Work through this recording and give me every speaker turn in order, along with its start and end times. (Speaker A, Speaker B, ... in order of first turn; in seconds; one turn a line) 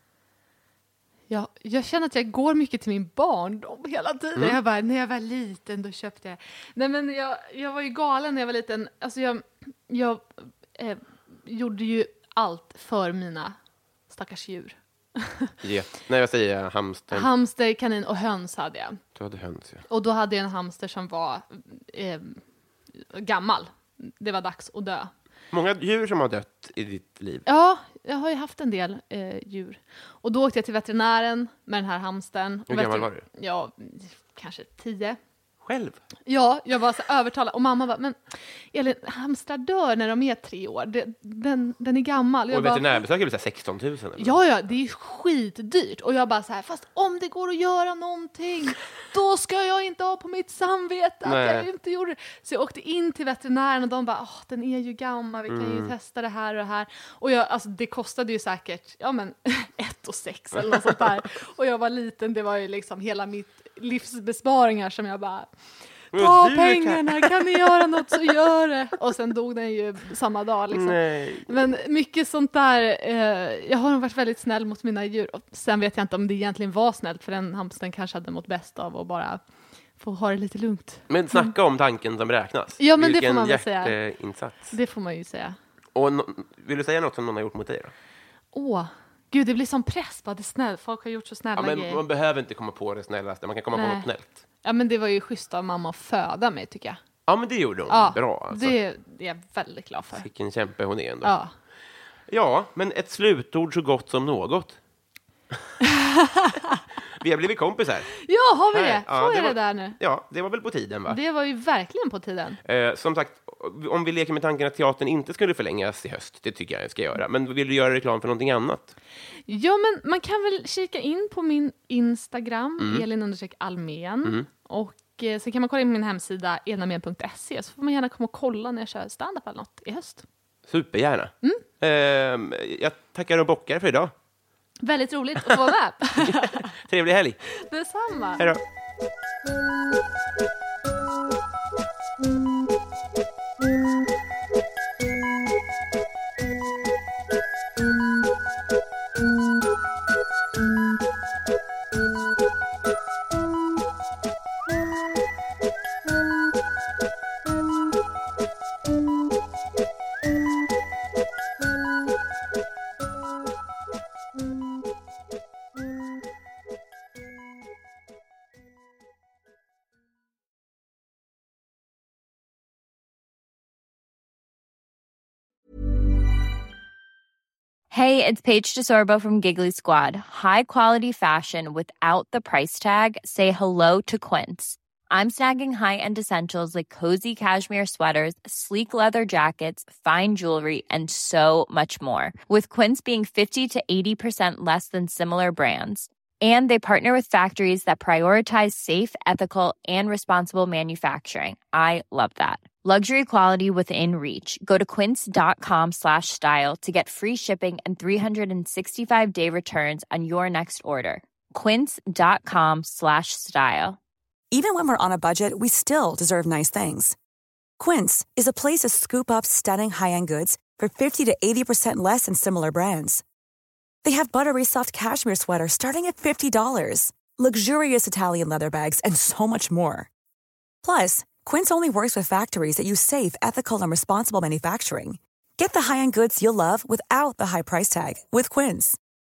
Speaker A: 1.3-13.5
Speaker A: 14.1-15.5
Speaker B: 15.6-17.3
Speaker A: 17.1-19.0
Speaker B: 19.1-19.8
Speaker A: 19.9-22.4
Speaker A: 23.0-25.1
Speaker B: 25.5-27.4
Speaker A: 27.4-35.2
Speaker B: 32.7-33.2
Speaker B: 35.6-36.0
Speaker A: 36.2-38.2
Speaker A: 38.7-43.0
Speaker B: 42.5-44.4
Speaker A: 44.2-65.5
Speaker B: 51.2-51.7
Speaker B: 55.5-55.9
Speaker A: 66.1-79.4
Speaker B: 66.1-67.7
Speaker B: 70.7-71.5
Speaker A: 80.0-81.5
Speaker B: 81.1-84.7
Speaker A: 82.8-84.0
Speaker A: 84.7-85.6
Speaker B: 85.9-87.9
Speaker A: 88.5-92.0
Speaker B: 91.5-94.4
Speaker A: 93.7-94.1
Speaker A: 94.6-97.0
Speaker B: 97.3-98.8
Speaker A: 97.9-100.3
Speaker B: 100.2-101.3
Speaker A: 101.2-101.5
Speaker B: 102.3-104.8
Speaker A: 105.8-106.8
Speaker B: 107.1-108.1
Speaker A: 108.2-110.0
Speaker B: 108.7-111.2
Speaker A: 111.1-112.6
Speaker B: 112.6-118.9
Speaker A: 119.5-130.2
Speaker B: 122.8-123.0
Speaker B: 130.7-134.1
Speaker A: 134.8-136.7
Speaker B: 136.2-137.4
Speaker A: 137.6-138.5
Speaker B: 138.4-138.6
Speaker C: 177.9-214.0
Speaker D: 214.5-217.2
Speaker D: 217.8-223.2
Speaker D: 224.0-230.1
Speaker D: 230.8-239.0